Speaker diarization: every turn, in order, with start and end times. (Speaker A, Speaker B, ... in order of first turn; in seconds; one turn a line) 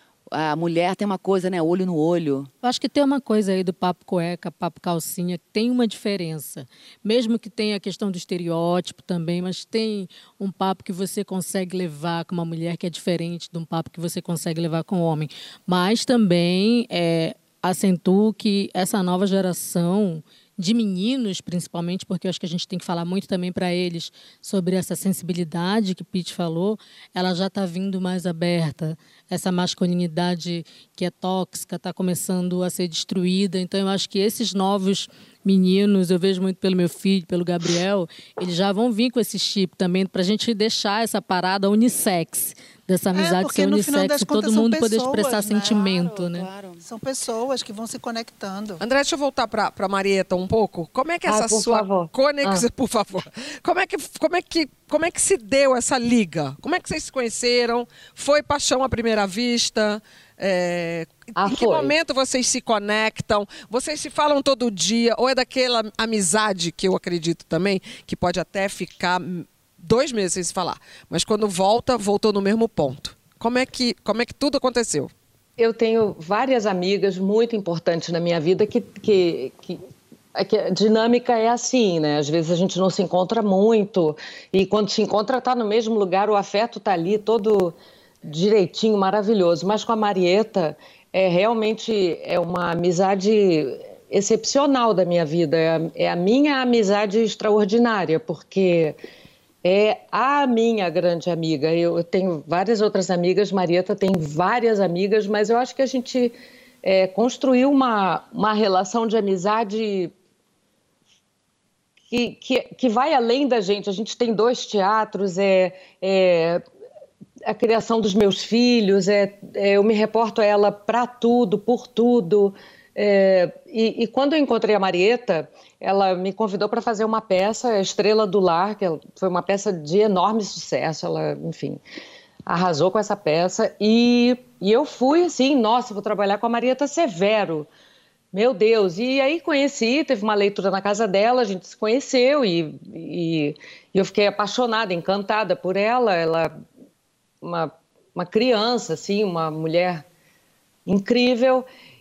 Speaker A: 0.3-2.5
Speaker B: 2.6-46.5
Speaker C: 43.1-45.8
Speaker A: 45.7-46.8
Speaker C: 46.8-48.8
Speaker D: 48.8-75.1
Speaker E: 51.3-52.6
Speaker E: 61.4-61.9
Speaker E: 75.6-79.8
Speaker E: 80.4-99.0
Speaker E: 99.6-110.1
Speaker E: 112.1-116.6
Speaker E: 117.5-131.8
Speaker E: 132.5-137.7
Speaker E: 138.3-146.5
Speaker E: 147.4-150.1
Speaker E: 150.9-151.7